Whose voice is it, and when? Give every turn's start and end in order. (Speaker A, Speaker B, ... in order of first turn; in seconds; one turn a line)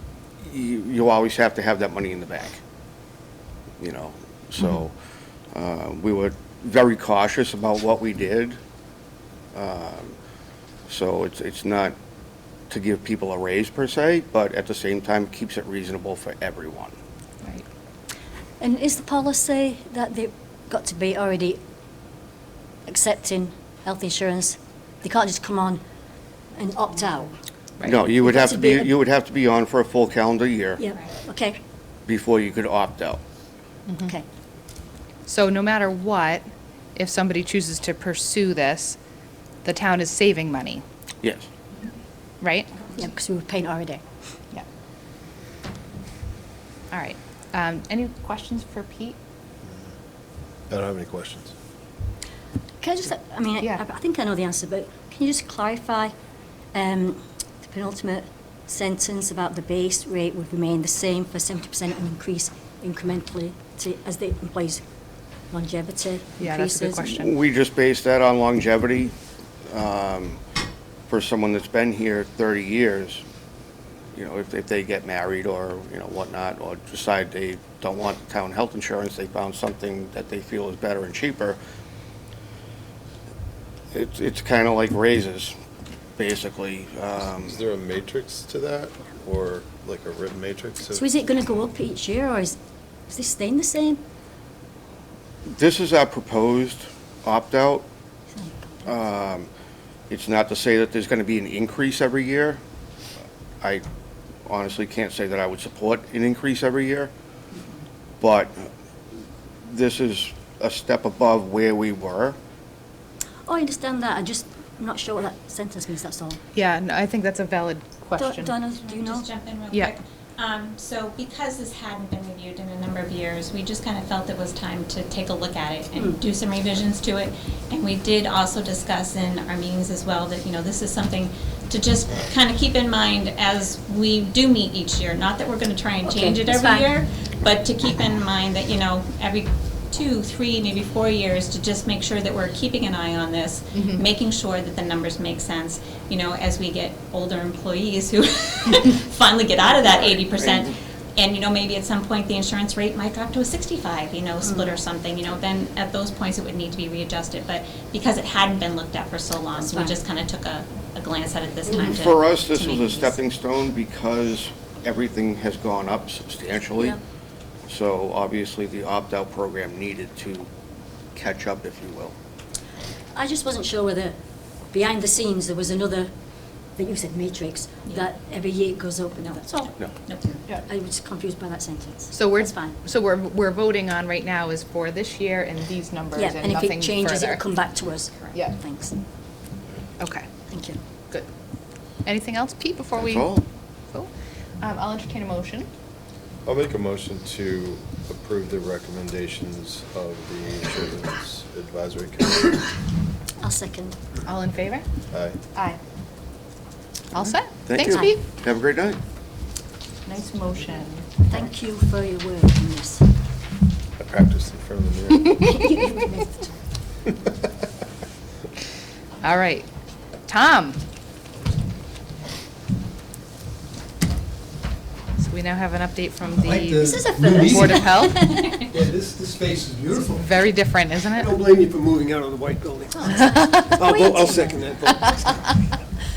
Speaker A: 0.4-2.6
Speaker A: 3.8-4.9
Speaker A: 5.5-8.6
Speaker A: 9.5-10.2
Speaker A: 10.9-11.9
Speaker A: 12.7-16.9
Speaker B: 18.6-21.6
Speaker B: 22.9-25.8
Speaker B: 26.6-27.4
Speaker A: 27.8-30.8
Speaker B: 28.2-28.9
Speaker B: 30.8-31.6
Speaker A: 32.1-33.2
Speaker C: 35.3-39.0
Speaker C: 39.6-40.8
Speaker A: 41.2-41.5
Speaker C: 42.4-42.7
Speaker B: 42.9-44.0
Speaker C: 46.9-49.2
Speaker D: 50.7-51.5
Speaker B: 52.8-56.1
Speaker B: 56.7-64.8
Speaker B: 65.5-67.1
Speaker C: 66.4-67.3
Speaker A: 67.1-69.2
Speaker A: 69.7-70.4
Speaker A: 71.1-73.2
Speaker A: 74.2-81.6
Speaker A: 83.9-85.6
Speaker A: 86.2-87.6
Speaker D: 87.4-91.0
Speaker B: 90.9-92.6
Speaker B: 93.1-94.0
Speaker A: 95.5-97.8
Speaker B: 98.3-98.8
Speaker A: 98.9-99.5
Speaker A: 100.1-102.6
Speaker A: 104.5-107.1
Speaker A: 108.2-108.7
Speaker A: 109.6-112.4
Speaker B: 113.5-116.4
Speaker C: 116.5-118.5
Speaker B: 118.2-119.3
Speaker E: 118.8-163.2
Speaker B: 136.1-136.9
Speaker C: 143.8-144.0
Speaker A: 149.8-150.7
Speaker B: 154.4-154.7
Speaker B: 159.6-160.0
Speaker A: 161.7-167.0
Speaker A: 167.7-170.5
Speaker A: 171.2-172.2
Speaker B: 173.2-174.2
Speaker B: 174.7-176.1
Speaker B: 176.8-179.7
Speaker E: 179.2-180.4
Speaker B: 180.6-182.8
Speaker C: 182.1-187.4
Speaker B: 186.1-189.0
Speaker C: 190.0-190.3
Speaker B: 190.5-190.8
Speaker C: 192.1-193.3
Speaker A: 193.0-193.4
Speaker C: 194.6-195.7
Speaker D: 196.4-202.6
Speaker B: 203.4-204.1
Speaker C: 204.2-204.8
Speaker D: 205.1-205.4
Speaker C: 207.1-208.2
Speaker A: 207.7-209.0
Speaker C: 210.1-211.2
Speaker B: 211.2-213.1
Speaker D: 214.0-215.5
Speaker B: 215.4-216.5
Speaker C: 219.2-219.7
Speaker C: 220.3-220.8
Speaker C: 225.2-226.9
Speaker F: 226.3-230.4
Speaker B: 226.8-228.7
Speaker C: 227.5-228.6
Speaker C: 230.2-231.4
Speaker F: 231.1-235.8
Speaker B: 233.0-234.7
Speaker C: 233.2-233.8